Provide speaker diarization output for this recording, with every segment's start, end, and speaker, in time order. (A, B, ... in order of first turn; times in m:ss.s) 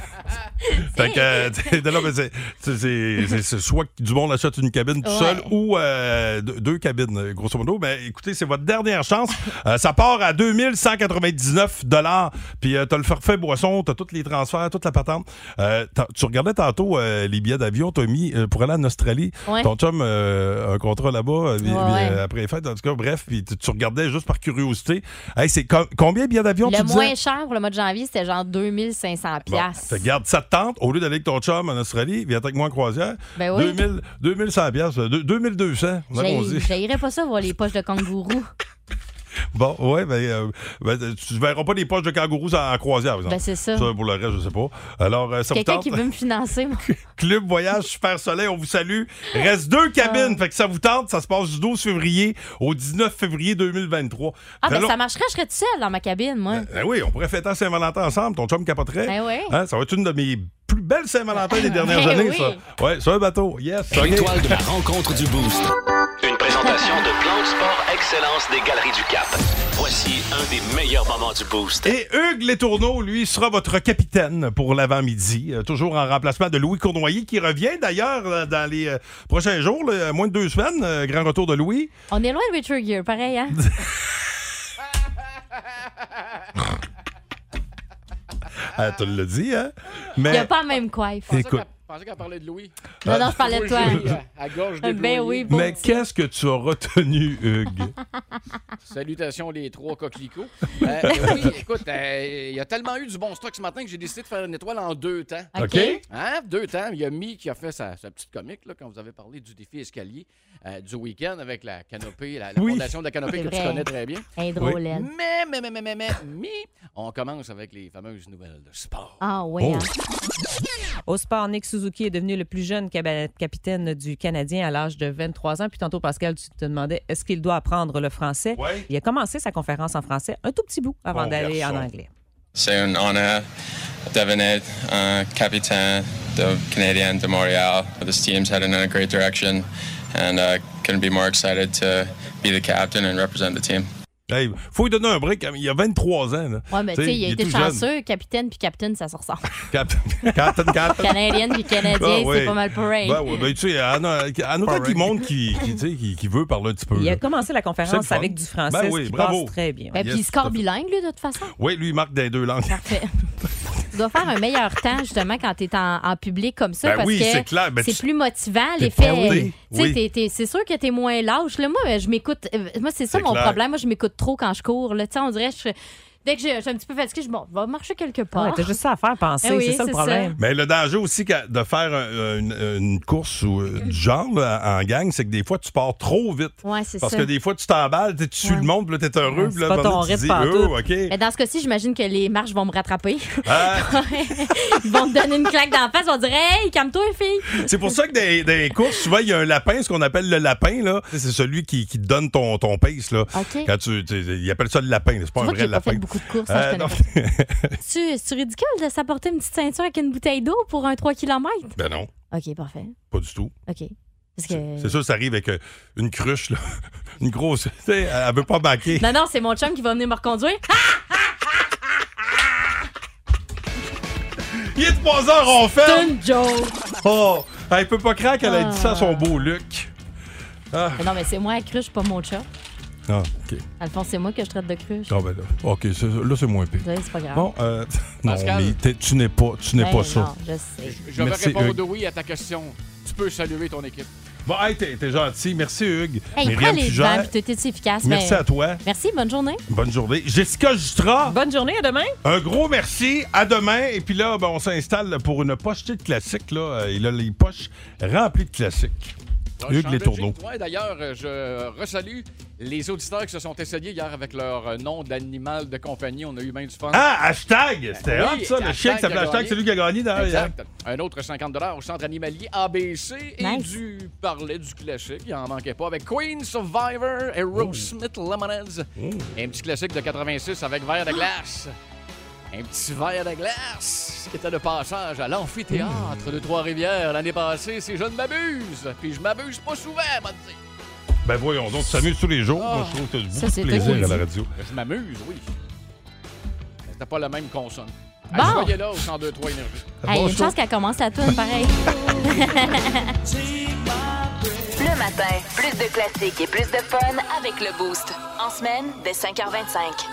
0:00.7-0:01.6 A
0:00.8-0:27.1 B
0:05.0-0:05.5 A
0:21.6-0:22.2 A
0:26.6-0:30.0 A
0:29.5-0:36.8 B
0:33.4-0:33.8 A
0:36.1-0:38.5 A
0:39.5-0:46.0 B
0:43.3-0:43.9 A
0:45.5-0:46.9 A
0:46.8-0:55.0 B
0:50.0-0:50.4 A
0:54.6-0:56.7 A
0:56.5-1:04.6 B
0:59.1-0:59.6 A
1:01.4-1:02.6 A
1:03.9-1:11.9 C
1:06.6-1:07.0 A
1:11.8-1:21.9 B
1:22.1-1:23.6 A
1:23.6-1:24.0 B
1:28.7-1:30.5 B
1:30.2-1:31.4 A
1:31.3-1:32.7 D
1:31.3-1:31.6 B
1:33.0-1:34.1 B
1:33.0-1:34.1 A
1:33.3-1:35.8 D
1:34.8-1:36.0 A
1:35.5-1:37.9 B
1:38.8-1:45.5 D
1:41.0-1:41.5 A
1:45.5-1:46.0 A
1:45.6-1:46.0 B
1:46.1-1:54.3 D
1:52.6-1:52.9 B
1:53.3-1:55.1 A
1:54.9-1:59.2 D
1:59.2-1:59.9 A
1:59.6-1:59.9 B
2:01.1-2:12.1 E
2:08.6-2:08.9 B
2:11.1-2:11.9 B
2:12.6-2:13.4 F
2:14.1-2:23.9 F
2:24.3-2:27.9 B
2:26.7-2:29.5 A
2:29.7-2:37.2 B
2:30.2-2:33.4 A
2:36.9-2:40.0 E
2:37.8-2:40.6 B
2:39.9-2:41.5 A
2:41.6-2:42.9 B
2:42.7-2:43.1 A
2:43.9-2:55.7 A
2:46.8-2:48.0 B
2:48.8-2:50.0 B
2:53.1-2:53.6 B
2:56.2-2:58.8 A
2:58.4-3:00.4 E
2:59.4-3:00.3 A
3:00.4-3:11.1 B
3:06.6-3:07.3 A
3:08.4-3:08.7 A
3:09.3-3:10.7 E
3:11.1-3:17.7 A
3:13.4-3:14.5 B
3:17.5-3:27.8 B
3:23.3-3:23.7 A
3:25.4-3:27.1 A
3:27.8-3:31.8 A
3:31.8-3:32.1 B
3:32.3-3:32.9 A
3:33.1-3:33.5 B
3:33.7-3:35.0 A
3:34.5-3:36.6 B
3:37.2-3:39.1 B
3:39.0-3:41.3 A
3:44.5-3:46.2 B
3:45.8-3:46.8 A
3:47.0-3:49.9 B
3:48.4-3:49.3 A
3:50.7-3:51.1 B
3:51.0-3:52.5 A
3:53.1-3:53.6 B
3:53.8-3:55.2 A
3:55.1-4:00.3 B
3:56.8-3:57.5 A
3:58.2-3:58.8 D
3:59.8-4:01.0 A
4:00.8-4:04.1 D
4:01.2-4:01.8 B
4:04.4-4:07.3 B
4:06.4-4:09.6 A
4:08.0-4:08.8 B
4:09.7-4:11.4 B
4:11.2-4:12.2 E
4:12.2-4:19.2 B
4:19.6-4:27.1 D
4:19.7-4:20.4 B
4:26.9-4:30.5 B
4:27.9-4:29.6 D
4:30.2-4:41.7 D
4:33.4-4:33.8 A
4:37.5-4:37.9 B
4:39.0-4:39.3 B
4:42.5-4:50.6 D
4:45.7-4:46.3 B
4:51.2-4:54.5 B
4:52.5-4:53.0 D
4:53.3-4:54.2 A
4:53.7-4:55.4 D
4:56.8-4:59.9 D
4:58.3-4:58.7 A
5:00.0-5:00.5 B
5:00.1-5:03.2 A
5:04.7-5:10.0 G